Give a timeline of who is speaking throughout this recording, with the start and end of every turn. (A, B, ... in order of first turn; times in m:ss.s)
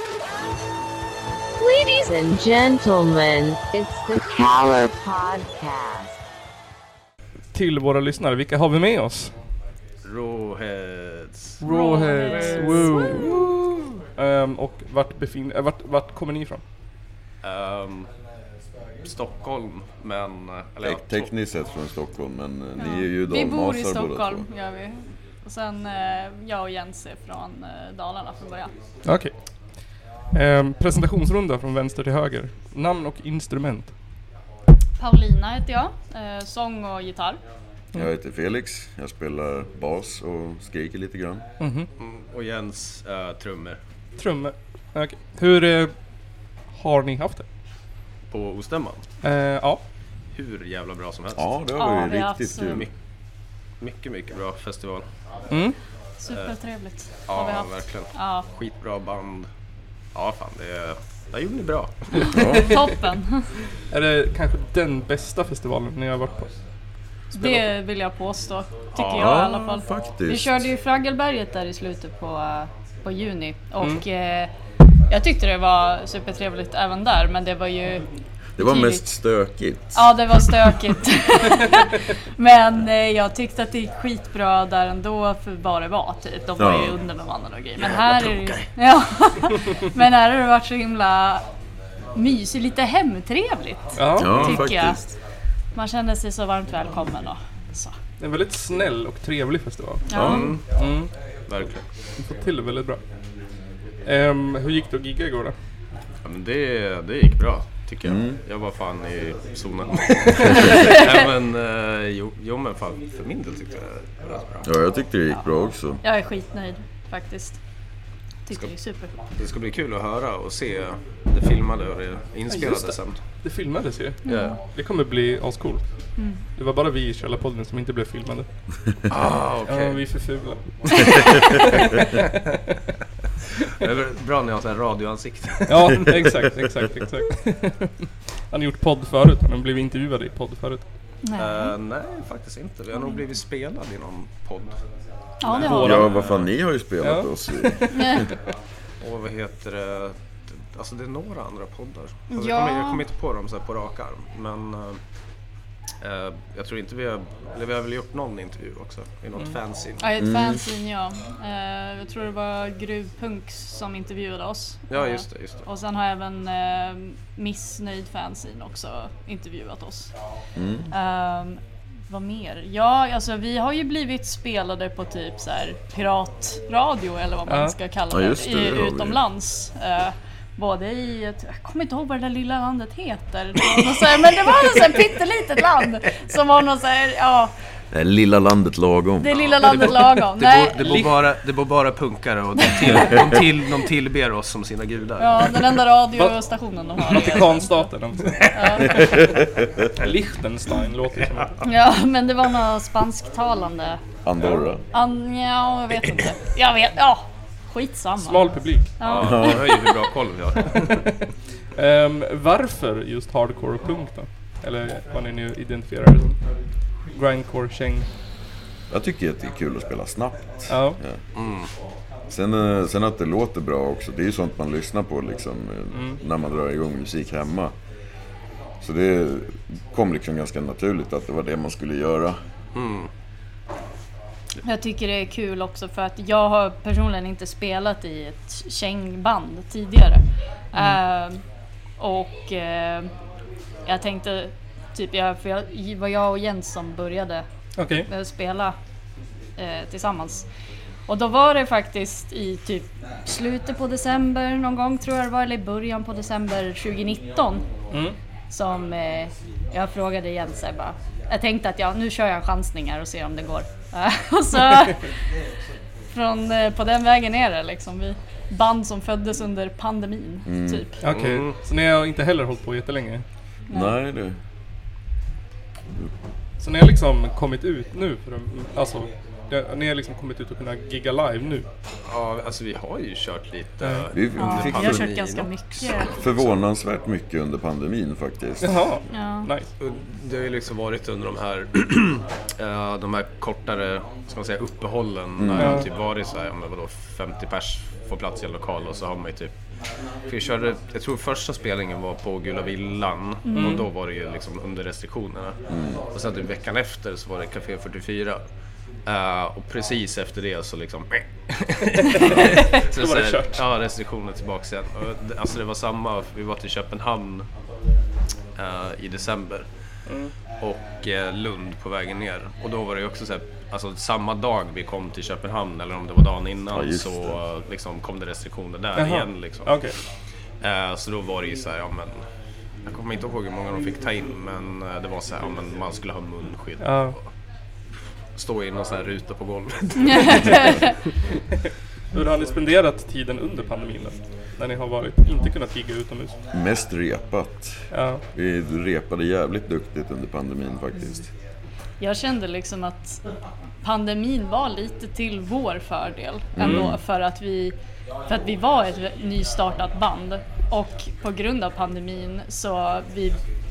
0:01.6-0:06.2 A
0:07.5-0:09.3 B
0:10.0-0:11.6 C
0:11.6-0:13.4 B
0:11.6-0:13.4 D
0:12.2-0:13.8 C
0:14.2-0:16.6 B
0:17.4-0:18.1 C
0:19.0-0:21.3 C
0:20.8-0:24.4 E
0:22.8-0:28.7 D
0:29.0-0:29.3 B
0:30.3-0:33.9 B
0:35.0-0:37.4 D
0:37.9-0:41.4 E
0:41.6-0:41.9 B
0:42.0-0:43.8 C
0:44.2-0:45.9 B
0:46.7-0:47.4 B
0:48.3-0:49.0 C
0:49.2-0:49.8 B
0:50.3-0:51.4 C
0:51.3-0:52.9 E
0:51.7-0:52.8 D
0:53.8-0:55.0 C
0:55.5-0:55.8 B
0:56.2-0:58.5 D
0:57.3-0:59.5 C
1:00.1-1:02.5 C
1:02.2-1:03.4 D
1:02.3-1:02.8 E
1:03.9-1:06.5 B
1:07.3-1:14.5 D
1:07.4-1:07.7 B
1:09.0-1:10.6 E
1:15.1-1:18.0 D
1:18.6-1:20.4 E
1:18.6-1:19.0 D
1:19.9-1:31.4 D
1:26.6-1:27.0 E
1:27.8-1:28.7 C
1:32.1-1:35.0 D
1:34.0-1:34.6 B
1:34.2-1:35.0 E
1:35.7-1:37.9 D
1:38.2-1:41.1 B
1:40.1-1:40.6 D
1:40.1-1:40.5 E
1:40.2-1:40.6 C
1:41.5-1:41.8 C
1:42.2-1:43.0 B
1:44.0-1:45.6 B
1:46.2-1:54.7 C
1:48.0-1:48.4 E
1:50.4-1:50.8 E
1:54.6-1:56.0 E
1:56.0-1:57.6 D
1:58.4-1:59.1 D
1:59.4-2:03.2 C
2:02.5-2:05.8 B
2:04.2-2:04.6 D
2:06.6-2:08.5 B
2:09.1-2:10.0 C
2:09.7-2:12.2 B
2:13.8-2:16.3 C
2:15.7-2:17.9 B
2:16.1-2:16.9 E
2:18.5-2:20.8 B
2:21.2-2:21.7 D
2:21.4-2:24.8 C
2:25.4-2:26.1 D
2:25.5-2:26.5 B
2:25.6-2:28.2 E
2:26.0-2:26.5 C
2:27.0-2:28.1 B
2:27.9-2:28.2 D
2:29.0-2:35.0 C
2:32.3-2:33.0 D
2:36.0-2:40.1 C
2:40.0-2:50.1 D
2:40.2-2:40.6 E
2:44.9-2:45.6 C
2:50.6-2:50.9 E
2:50.9-3:07.5 D
2:57.5-2:57.8 B
2:58.1-2:59.2 E
3:07.9-3:09.5 E
3:09.2-3:11.1 D
3:09.3-3:15.6 C
3:12.6-3:13.2 D
3:15.2-3:17.8 D
3:17.0-3:19.0 B
3:18.5-3:19.0 D
3:18.9-3:19.6 E
3:20.0-3:21.6 B
3:21.6-3:24.0 D
3:24.2-3:24.8 E
3:24.9-3:29.7 D
3:28.2-3:29.3 B
3:29.0-3:31.0 C
3:29.2-3:29.6 E
3:31.8-3:36.4 B
3:37.1-3:38.1 B
3:38.9-3:41.2 E
3:40.7-3:41.0 B
3:41.3-3:41.7 C
3:42.3-3:47.7 E
3:45.9-3:46.2 B
3:48.8-3:52.4 E
3:52.7-3:53.1 C
3:54.6-4:01.4 D
4:02.0-4:03.1 D
4:03.8-4:07.4 D
4:07.8-4:08.1 B
4:08.1-4:08.8 D
4:09.6-4:10.4 D
4:11.1-4:17.6 D
4:17.9-4:18.2 B
4:18.5-4:25.0 D
4:26.1-4:31.0 D
4:30.4-4:30.8 E
4:31.0-4:33.2 B
4:31.1-4:31.6 C
4:33.7-4:34.0 D
4:33.7-4:34.4 E
4:36.6-4:41.6 B
4:42.1-4:46.5 C
4:43.8-4:44.1 B
4:44.1-4:45.1 E
4:44.4-4:46.1 D
4:46.2-4:48.7 E
4:48.6-4:49.7 B
4:49.1-4:49.5 D
4:49.8-4:59.5 C
4:55.4-4:55.8 E
4:55.6-4:55.9 B
5:00.3-5:05.6 C
5:03.4-5:03.8 D
5:03.6-5:03.8 B
5:05.7-5:06.0 E
5:06.1-5:08.4 C
5:09.0-5:17.5 C
5:12.0-5:13.6 B
5:18.6-5:19.6 C
5:20.1-5:20.3 B
5:20.6-5:29.8 C
5:26.7-5:27.4 E
5:29.0-5:29.9 B
5:30.6-5:32.2 C
5:32.8-5:37.2 C
5:36.8-5:37.2 B
5:38.4-5:40.8 C
5:40.0-5:40.9 D
5:42.1-5:46.4 B
5:46.5-5:51.3 E
5:47.9-5:48.2 B
5:52.0-5:53.2 D
5:53.8-5:57.7 D
5:56.5-5:57.0 E
5:56.6-5:56.9 B
5:58.3-6:03.4 D